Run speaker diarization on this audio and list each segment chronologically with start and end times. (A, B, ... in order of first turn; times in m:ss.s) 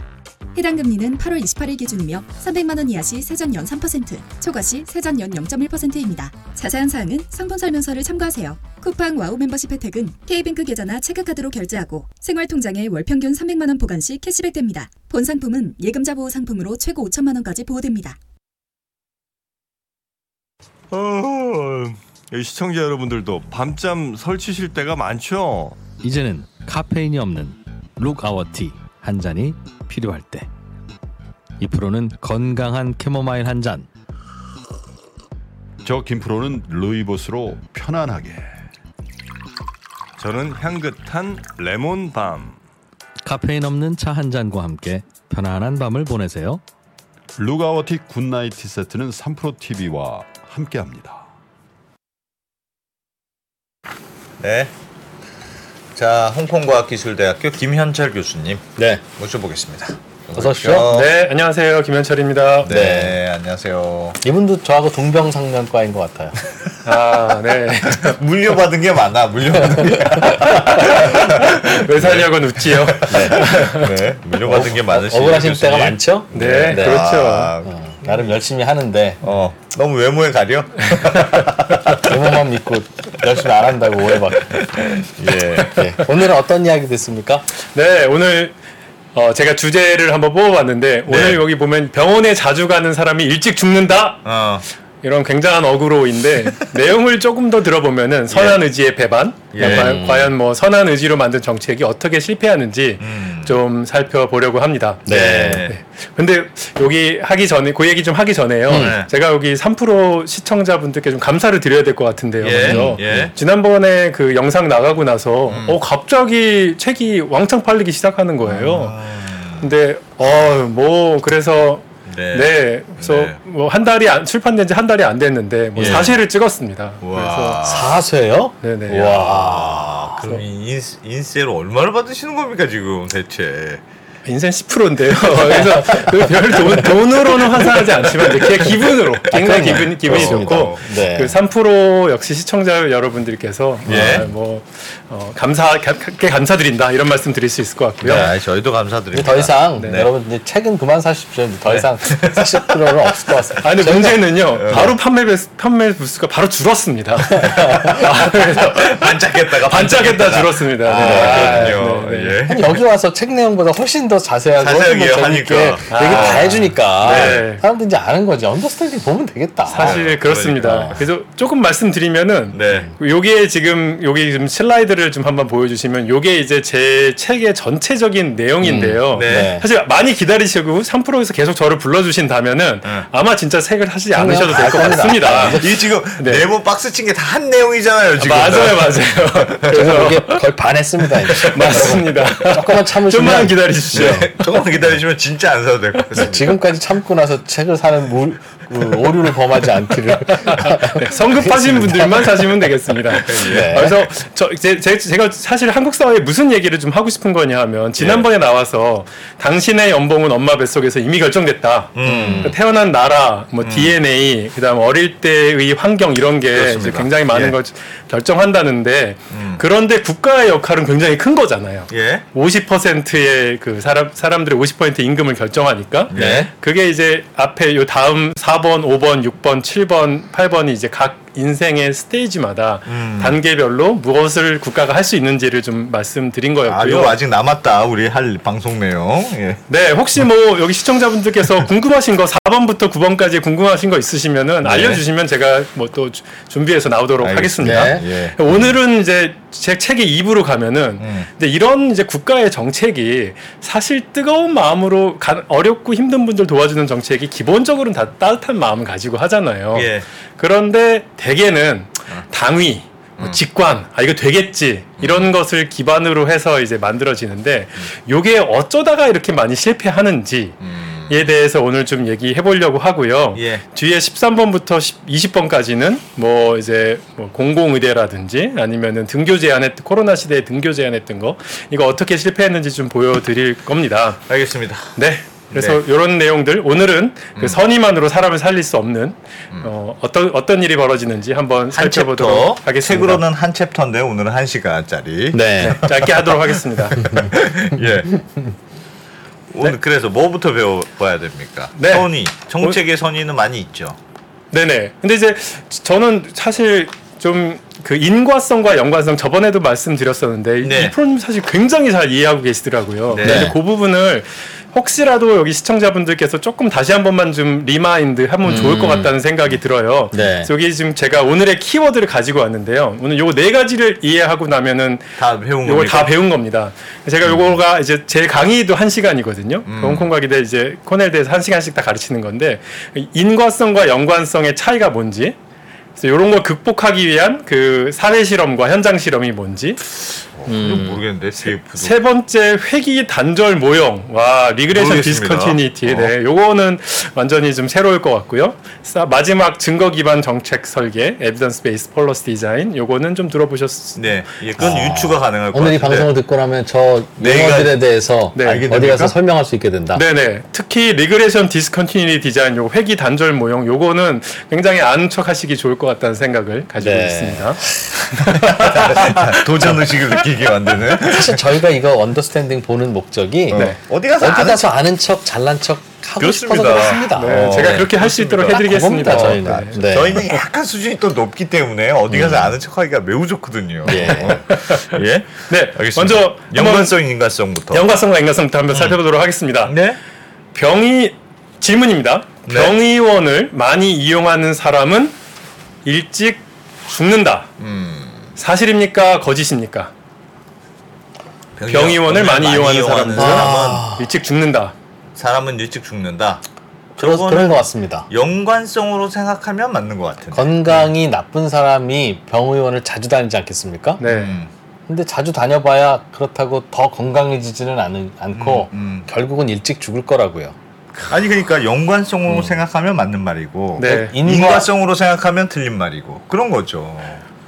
0:00.6-0:18.2 A
0:20.9-0:25.8 B
0:26.0-0:30.5 C
0:31.6-0:33.9 C
0:35.8-0:38.5 D
0:40.2-0:42.6 B
0:43.2-0:46.6 C
0:47.3-0:51.2 D
0:54.4-0:54.7 E
0:55.9-0:58.6 E
0:58.8-0:59.0 C
0:59.2-1:01.1 E
1:00.4-1:00.9 C
1:00.9-1:02.7 F
1:02.6-1:04.2 E
1:02.7-1:03.2 C
1:04.2-1:06.4 C
1:06.8-1:08.2 F
1:07.9-1:18.2 E
1:09.8-1:10.6 C
1:10.8-1:13.8 F
1:13.1-1:13.8 C
1:14.4-1:17.1 C
1:16.3-1:17.5 F
1:17.6-1:19.2 C
1:19.2-1:22.2 E
1:21.9-1:24.6 C
1:23.2-1:25.8 E
1:25.7-1:27.5 C
1:27.6-1:28.6 F
1:29.1-1:34.2 F
1:31.1-1:31.4 E
1:34.2-1:34.6 E
1:35.0-1:59.0 F
1:38.3-1:38.6 E
1:39.5-1:40.0 E
1:39.6-1:40.3 C
1:43.0-1:43.6 E
1:45.1-1:45.6 C
1:45.2-1:45.8 E
1:48.7-1:49.0 C
1:48.7-1:49.1 E
1:52.4-1:53.3 E
1:52.7-1:53.3 C
1:55.5-1:55.8 E
1:58.5-1:59.7 E
1:59.6-2:07.6 F
2:02.1-2:03.4 E
2:05.8-2:06.1 C
2:05.8-2:06.1 E
2:07.0-2:08.0 E
2:07.6-2:10.2 C
2:08.6-2:09.3 F
2:09.1-2:13.8 E
2:14.2-2:28.3 F
2:15.5-2:16.0 C
2:18.3-2:18.7 E
2:19.3-2:20.9 E
2:19.3-2:21.4 C
2:23.9-2:24.3 E
2:23.9-2:24.2 C
2:28.0-2:28.3 C
2:28.0-2:30.1 E
2:29.1-2:34.9 C
2:31.7-2:33.3 E
2:33.6-2:42.4 F
2:34.6-2:34.9 E
2:37.3-2:38.0 C
2:37.9-2:42.8 E
2:40.9-2:41.8 C
2:42.4-2:50.0 C
2:44.6-2:47.4 E
2:45.9-2:47.6 F
2:49.7-3:06.4 F
2:49.8-2:51.0 E
2:50.6-2:51.0 C
2:52.5-2:52.9 E
2:58.6-2:59.6 C
2:59.1-2:59.5 E
3:04.1-3:05.7 C
3:04.7-3:09.7 E
3:08.2-3:10.4 F
3:09.7-3:14.3 C
3:11.3-3:14.3 F
3:13.9-3:16.6 E
3:16.1-3:22.2 C
3:18.8-3:19.1 E
3:20.5-3:57.2 F
3:23.3-3:24.1 E
3:23.4-3:23.9 C
3:28.0-3:28.2 E
3:32.0-3:32.5 E
3:32.0-3:32.6 C
3:33.6-3:33.9 E
3:36.5-3:37.6 E
3:39.3-3:39.6 E
3:41.9-3:42.2 E
3:46.1-3:46.5 E
3:46.1-3:46.5 C
3:52.9-3:53.4 E
3:56.7-3:59.6 E
3:59.7-4:30.6 F
4:04.6-4:05.0 E
4:07.2-4:08.8 E
4:07.6-4:08.1 C
4:11.0-4:11.3 E
4:19.7-4:20.1 E
4:25.0-4:25.3 E
4:30.6-4:31.2 E
4:31.1-4:44.2 F
4:33.4-4:33.6 E
4:44.3-4:45.0 E
4:44.9-4:53.2 F
4:45.5-4:45.8 E
4:51.7-4:56.3 E
4:55.3-4:55.8 C
4:55.7-4:57.2 F
4:56.9-4:58.2 E
4:59.5-5:04.0 E
5:01.8-5:02.8 F
5:04.5-5:25.1 F
5:10.6-5:10.9 E
5:13.1-5:13.5 E
5:13.2-5:13.6 C
5:18.4-5:19.1 C
5:20.1-5:20.5 C
5:25.2-5:26.1 E
5:25.6-5:35.4 F
5:27.2-5:27.6 E
5:29.7-5:30.1 E
5:36.0-5:39.8 F
5:40.4-5:42.0 E
5:40.4-5:41.0 C
5:41.8-5:54.1 F
5:44.7-5:46.1 E
5:54.0-5:56.1 E
5:54.6-6:00.0 C
5:57.2-5:57.8 E
5:58.4-5:58.7 F
5:58.4-5:59.1 E
5:59.9-6:09.3 F
6:06.8-6:09.2 C
6:08.3-6:11.4 E
6:11.0-6:20.2 C
6:13.5-6:14.7 E
6:16.2-6:27.9 E
6:16.7-6:20.4 F
6:22.1-6:22.5 C
6:23.9-6:24.4 C
6:23.9-6:27.0 F
6:27.7-6:29.8 F
6:29.6-6:30.0 E
6:30.5-6:35.1 F
6:32.5-6:32.8 E
6:35.8-6:37.5 F
6:37.6-6:38.3 E
6:38.4-6:39.9 F
6:41.6-6:43.9 E
6:41.7-6:44.7 F
6:43.2-6:44.1 C
6:45.2-6:46.4 E
6:47.0-6:50.9 E
6:47.0-6:48.1 C
6:50.3-6:54.0 C
6:54.0-6:54.4 F
6:54.0-6:54.5 E
6:54.9-7:00.6 C
6:58.4-6:59.1 E
7:01.1-7:07.2 E
7:03.8-7:04.1 F
7:03.8-7:04.7 C